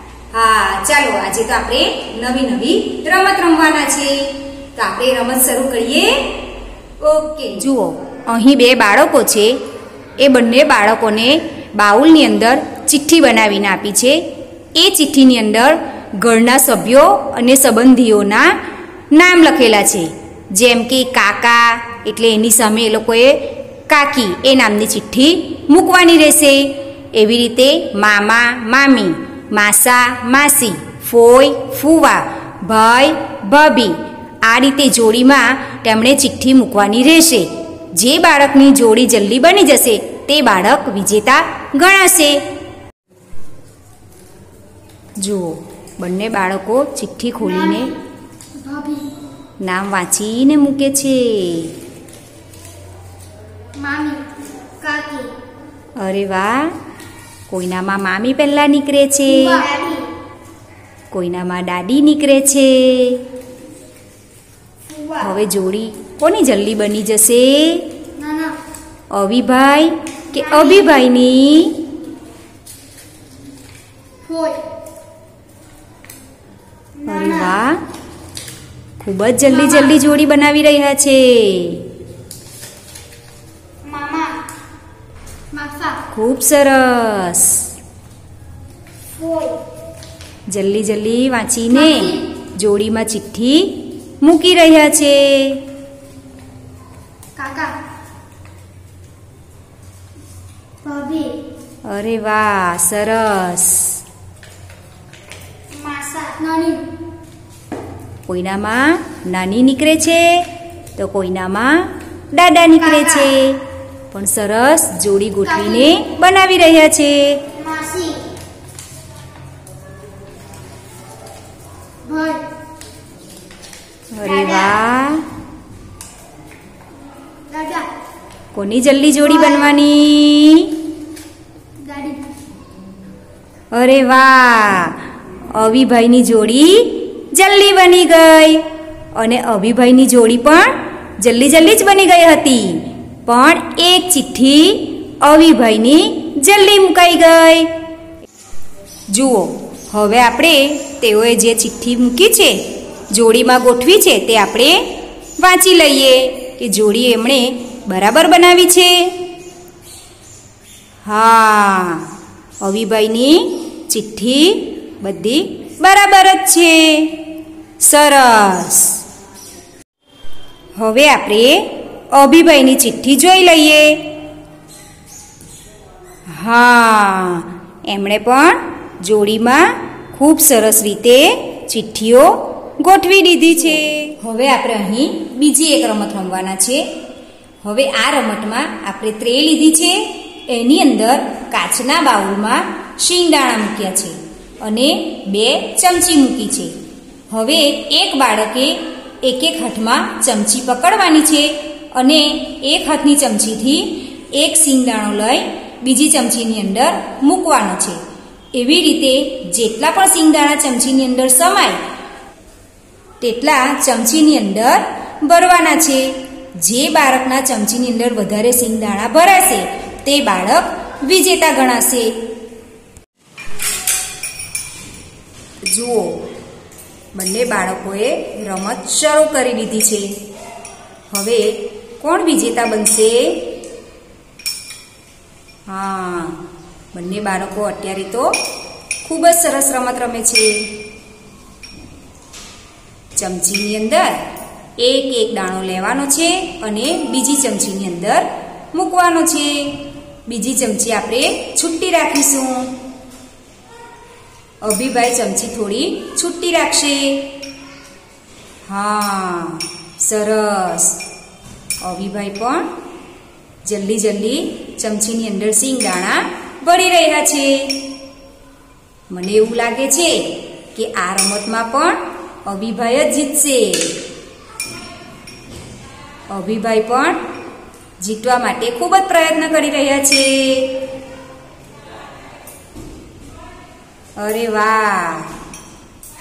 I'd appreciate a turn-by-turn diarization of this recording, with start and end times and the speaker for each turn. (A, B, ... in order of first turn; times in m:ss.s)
0:00.3-0:06.3 A
0:07.0-0:09.6 A
0:10.2-0:14.2 A
0:14.7-0:18.5 A
0:19.1-0:42.4 A
0:45.2-0:47.9 A
0:47.4-0:47.9 B
0:48.6-0:49.1 B
0:49.6-0:51.7 A
0:53.8-0:54.2 B
0:54.8-0:55.3 B
0:56.0-0:56.7 A
0:57.5-0:59.6 A
0:59.3-1:00.1 B
1:01.1-1:03.2 A
1:04.9-1:05.3 B
1:05.2-1:07.9 A
1:08.2-1:08.5 B
1:09.1-1:11.8 A
1:10.4-1:10.8 B
1:14.2-1:14.6 B
1:17.0-1:17.6 B
1:17.1-1:17.8 A
1:19.0-1:21.8 A
1:19.5-1:20.0 B
1:23.8-1:24.3 B
1:25.5-1:26.0 B
1:26.1-1:27.7 A
1:29.1-1:29.6 B
1:30.5-1:35.6 A
1:31.7-1:32.2 B
1:37.4-1:37.7 B
1:40.8-1:41.4 B
1:41.9-1:44.0 A
1:45.7-1:46.8 B
1:48.3-1:57.4 A
1:52.9-1:53.3 B
1:55.4-1:55.9 B
1:57.5-1:58.2 B
2:02.0-2:02.4 B
2:04.1-2:05.2 A
2:04.2-2:04.8 B
2:07.5-2:07.9 B
2:08.5-2:10.8 A
2:09.2-2:09.7 B
2:11.8-2:12.2 B
2:13.7-2:15.0 A
2:15.5-2:27.7 A
2:29.1-2:34.8 A
2:35.4-2:39.1 A
2:41.0-2:42.1 A
2:42.6-2:47.2 A
2:47.8-2:49.0 A
2:50.8-2:51.6 A
2:52.1-2:54.0 A
2:56.3-3:06.8 A
3:07.6-3:16.7 A
3:17.3-3:28.0 A
3:28.5-3:31.8 A
3:33.2-3:42.1 A
3:45.6-3:46.2 A
3:47.1-3:50.1 A
3:51.1-3:53.5 A
3:55.7-3:56.4 A
3:56.9-3:58.3 A
3:59.0-4:00.7 A
4:03.1-4:04.2 A
4:04.8-4:12.7 A
4:14.6-4:17.3 A
4:18.7-4:21.0 A
4:21.8-4:22.7 A
4:23.6-4:27.7 A
4:29.1-4:30.2 A
4:30.7-4:34.0 A
4:36.3-4:37.2 A
4:38.0-4:40.7 A
4:44.2-4:45.3 A